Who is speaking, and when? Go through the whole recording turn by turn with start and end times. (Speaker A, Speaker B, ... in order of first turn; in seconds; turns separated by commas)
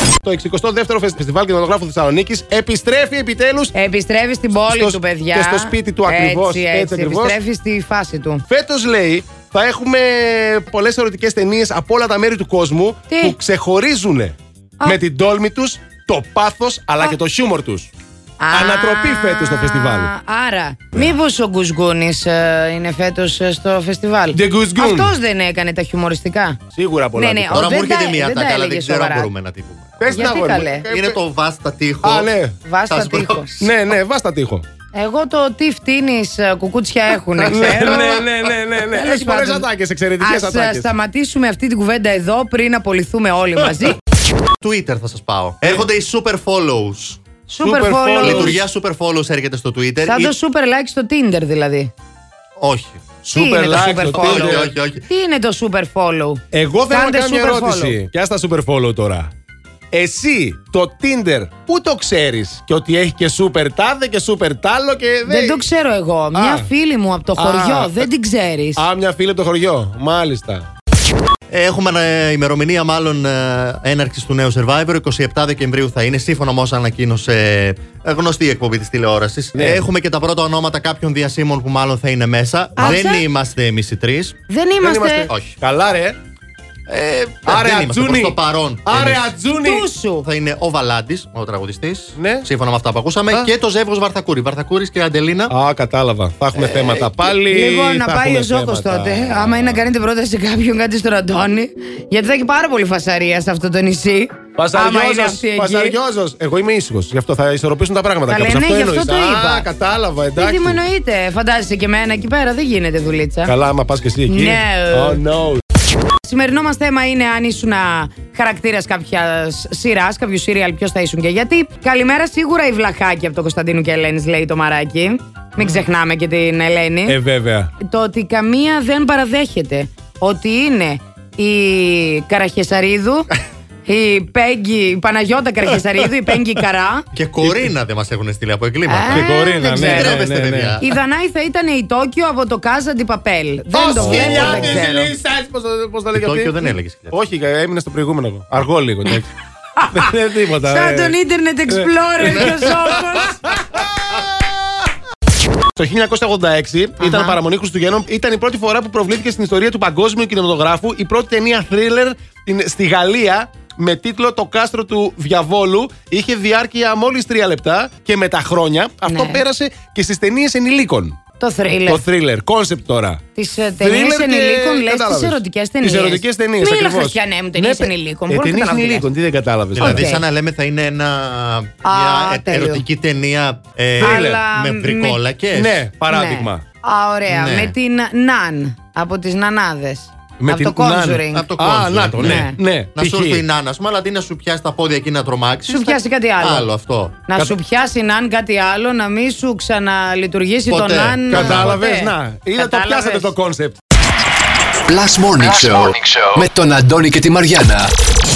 Speaker A: 0.2-3.7, Speaker B: 3.7-8.4, Speaker A: 4.5-7.4, Speaker A: 8.5-17.9, Speaker B: 13.1-13.3, Speaker B: 18.4-26.6, Speaker A: 18.5-20.1, Speaker A: 24.3-25.1, Speaker A: 26.7-27.8, Speaker B: 27.1-29.3, Speaker C: 27.5-30.4, Speaker A: 30.0-31.2, Speaker B: 30.1-30.8, Speaker C: 30.9-32.3, Speaker A: 32.0-32.5, Speaker B: 32.6-33.5, Speaker C: 32.9-33.7, Speaker A: 33.6-34.6, Speaker B: 34.9-38.2, Speaker A: 37.4-40.9, Speaker B: 38.8-39.7, Speaker B: 40.2-44.0, Speaker C: 44.6-47.2, Speaker B: 47.5-48.6, Speaker A: 47.6-48.6, Speaker C: 48.2-50.3, Speaker B: 50.0-51.9, Speaker C: 52.6-53.0, Speaker A: 53.2-54.7, Speaker B: 53.3-58.0, Speaker C: 54.1-55.0, Speaker A: 56.5-59.3, Speaker A: 59.9-65.6, Speaker B: 65.3-68.8, Speaker A: 66.3-66.7, Speaker A: 67.3-68.1, Speaker A: 68.8-70.7, Speaker C: 71.5-84.4, Speaker A: 79.5-79.9, Speaker B: 82.8-83.2, Speaker B: 84.5-85.3, Speaker A: 84.8-86.2, Speaker C: 85.3-85.5, Speaker C: 86.9-89.2, Speaker A: 87.5-89.9, Speaker B: 89.6-90.3, Speaker C: 90.1-95.5, Speaker A: 92.2-92.5, Speaker A: 95.5-99.9, Speaker C: 96.6-97.0, Speaker B: 97.2-106.0, Speaker A: 104.6-110.8, Speaker B: 108.3-109.7, Speaker B: 110.3-113.5, Speaker A: 113.5-115.6, Speaker B: 114.2-115.2, Speaker B: 116.2-127.2, Speaker A: 127.1-127.7, Speaker B: 127.8-133.3, Speaker B: 133.8-137.1, Speaker C: 137.1-140.8, Speaker A: 137.4-137.7, Speaker B: 138.9-140.2, Speaker A: 139.1-140.8, Speaker B: 140.8-145.1, Speaker A: 143.7-149.3, Speaker C: 143.9-144.8, Speaker C: 146.1-147.2, Speaker A: 149.9-151.2, Speaker B: 150.6-153.6, Speaker A: 151.7-153.8, Speaker C: 152.4-152.8, Speaker A: 155.8-171.2, Speaker B: 157.0-157.4, Speaker B: 169.0-169.4, Speaker B: 171.4-172.0, Speaker A: 171.9-173.2, Speaker B: 173.3-179.1, Speaker A: 173.8-180.1, Speaker B: 179.8-180.2, Speaker C: 179.8-185.8, Speaker B: 181.8-182.8, Speaker A: 184.0-184.4, Speaker B: 184.0-185.2, Speaker A: 185.5-186.6, Speaker B: 186.1-191.5, Speaker C: 187.3-187.7, Speaker A: 190.4-193.4, Speaker C: 191.3-197.2, Speaker B: 192.2-192.6, Speaker B: 195.7-196.7, Speaker B: 197.2-203.3, Speaker C: 200.7-201.8, Speaker A: 201.3-203.8, Speaker D: 204.8-207.9